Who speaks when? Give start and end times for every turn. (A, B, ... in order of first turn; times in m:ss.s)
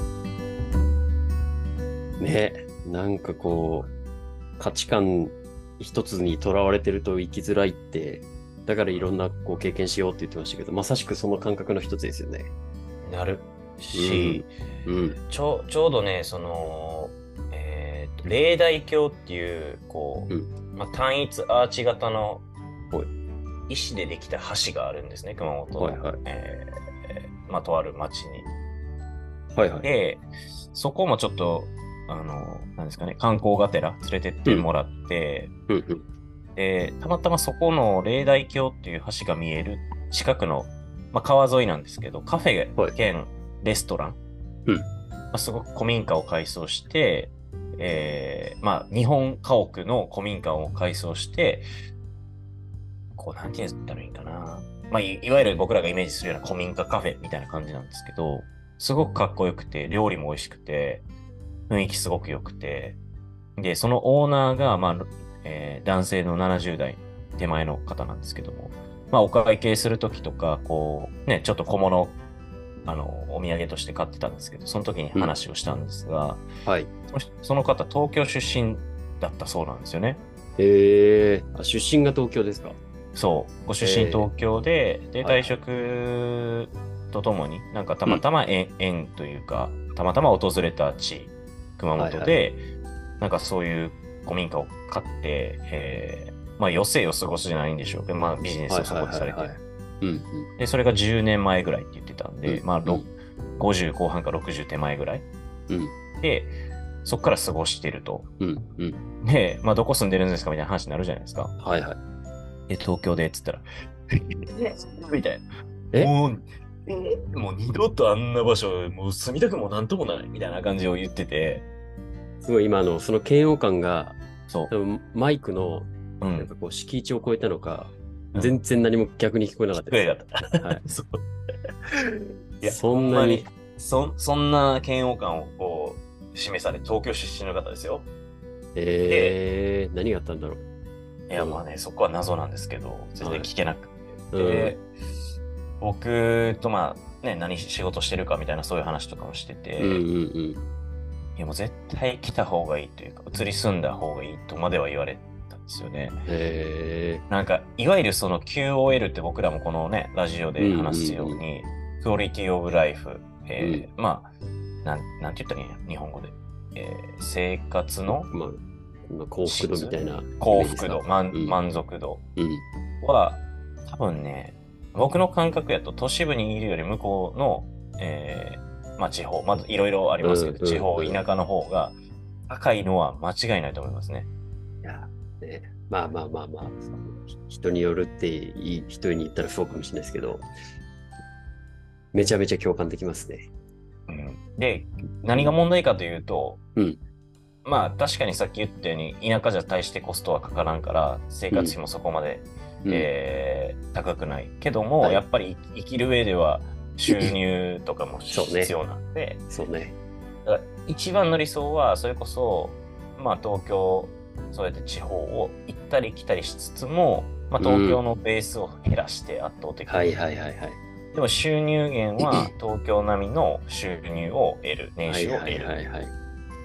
0:02.2-0:03.9 A
0:04.6-0:12.5 A
0:13.0-0:14.5 B
0:13.9-0:15.2 A
0:15.3-0:22.5 B
0:23.7-0:28.5 B
0:25.8-0:26.2 A
0:29.6-0:29.9 A
0:29.8-0:35.5 B
0:35.7-0:36.0 A
0:36.6-0:44.2 B
0:45.3-0:51.7 B
0:53.2-1:01.0 B
1:01.7-1:03.0 B
1:03.6-1:12.2 B
1:12.9-1:16.5 B
1:16.6-1:16.9 A
1:17.1-1:20.2 B
1:20.6-1:22.8 A
1:23.2-1:32.6 B
1:23.8-1:24.3 A
1:25.2-1:25.6 A
1:32.0-1:32.4 A
1:33.2-1:39.6 B
1:38.7-1:40.5 A
1:40.6-1:45.3 B
1:42.5-1:43.1 A
1:46.2-1:48.3 B
1:48.4-1:49.0 A
1:49.2-1:51.5 B
1:51.6-1:52.0 A
1:52.7-2:01.6 B
2:02.4-2:04.2 A
2:04.7-2:10.0 A
2:06.2-2:06.5 B
2:08.3-2:08.6 B
2:09.7-2:11.2 B
2:12.6-2:18.1 B
2:12.6-2:13.5 A
2:18.8-2:20.6 A
2:19.0-2:19.4 B
2:21.3-2:24.9 B
2:21.4-2:21.6 A
2:23.2-2:23.5 A
2:24.3-2:24.8 A
2:25.8-2:30.0 B
2:29.8-2:30.6 A
2:31.4-2:36.2 B
2:36.3-2:37.2 A
2:37.3-2:44.3 B
2:40.6-2:41.4 A
2:43.6-2:43.9 A
2:44.8-2:48.3 B
2:48.3-2:51.6 A
2:49.4-2:52.2 B
2:52.4-2:52.6 A
2:53.0-3:02.0 B
3:00.2-3:01.2 A
3:02.5-3:04.3 B
3:04.8-3:10.5 A
3:12.1-3:13.5 A
3:14.1-3:16.6 B
3:17.6-3:29.4 B
3:21.5-3:21.8 A
3:27.1-3:27.4 A
3:28.3-3:28.7 A
3:29.5-3:30.0 A
3:30.4-3:40.2 B
3:37.6-3:38.0 A
3:39.9-3:40.8 A
3:41.1-3:45.7 B
3:42.2-3:42.5 A
3:45.1-3:46.1 A